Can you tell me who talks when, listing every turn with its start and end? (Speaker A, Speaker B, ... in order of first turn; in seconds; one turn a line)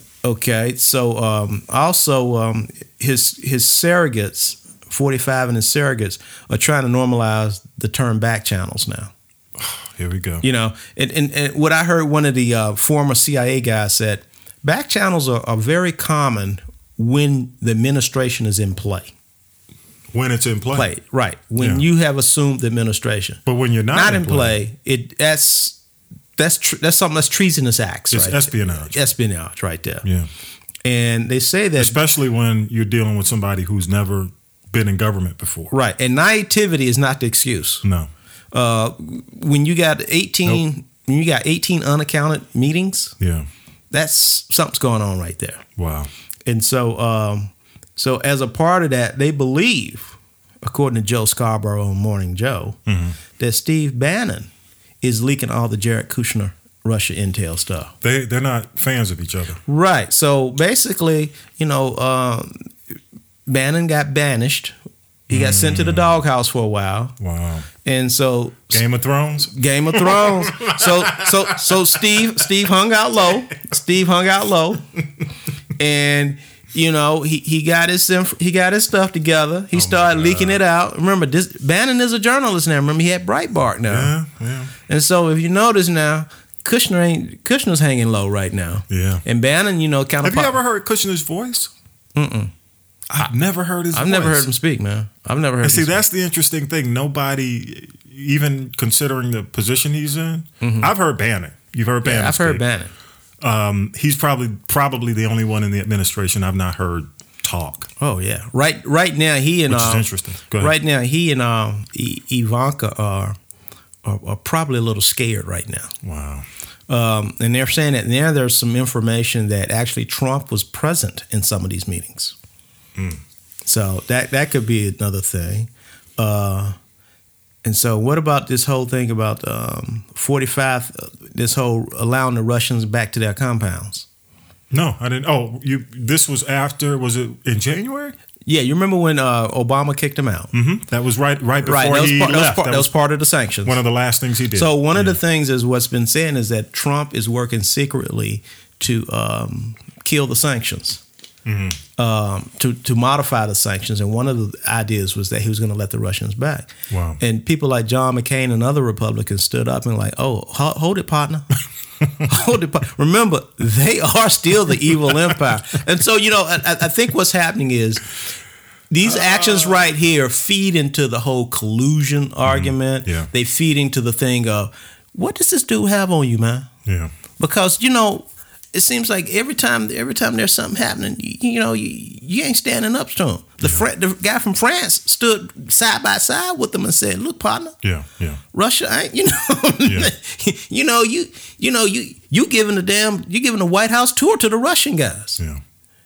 Speaker A: 0.2-9.1
Speaker B: 9.6-10.4
Speaker A: 10.4-19.1
Speaker B: 20.1-20.9
Speaker A: 20.7-23.4
Speaker B: 21.6-21.8
Speaker B: 23.4-24.6
Speaker A: 23.9-25.8
Speaker A: 26.4-30.0
Speaker B: 28.1-29.0
Speaker B: 30.0-30.3
Speaker A: 30.8-32.0
Speaker B: 31.8-35.7
Speaker A: 35.7-37.8
Speaker B: 37.8-38.1
Speaker A: 38.5-43.1
Speaker B: 43.2-43.5
Speaker A: 43.9-45.6
Speaker B: 45.8-46.1
Speaker A: 46.5-52.8
Speaker B: 52.9-53.2
Speaker A: 53.4-54.5
Speaker A: 55.0-57.9
Speaker B: 58.0-59.6
Speaker A: 59.7-62.7
Speaker A: 63.5-64.7
Speaker A: 65.3-67.1
Speaker B: 65.3-66.2
Speaker B: 67.2-67.7
Speaker A: 67.8-68.8
Speaker B: 68.7-72.2
Speaker A: 69.4-74.9
Speaker A: 75.8-84.1
Speaker B: 79.7-80.6
Speaker B: 83.9-84.7
Speaker A: 84.9-90.6
Speaker B: 88.9-89.2
Speaker B: 90.2-91.7
Speaker A: 92.1-92.5
Speaker B: 93.1-94.5
Speaker A: 93.9-96.0
Speaker B: 95.6-102.6
Speaker A: 100.6-100.9
Speaker A: 102.0-102.9
Speaker B: 103.4-107.9
Speaker A: 108.0-110.0
Speaker B: 109.7-110.7
Speaker A: 110.6-113.4
Speaker A: 114.0-115.9
Speaker B: 116.0-116.5
Speaker A: 116.9-122.3
Speaker B: 123.0-123.2
Speaker A: 123.6-126.8
Speaker A: 127.6-134.1
Speaker B: 134.7-138.1
Speaker A: 138.4-140.5
Speaker B: 140.5-142.9
Speaker A: 141.6-143.8
Speaker B: 143.6-145.2
Speaker A: 144.5-151.0
Speaker B: 151.4-151.8
Speaker A: 151.9-161.5
Speaker B: 156.9-157.2
Speaker A: 162.2-168.1
Speaker A: 168.9-176.7
Speaker B: 169.0-169.7
Speaker B: 172.4-173.3
Speaker B: 176.8-177.1
Speaker A: 177.4-187.8
Speaker B: 187.8-188.4
Speaker A: 188.5-195.4
Speaker B: 189.8-190.1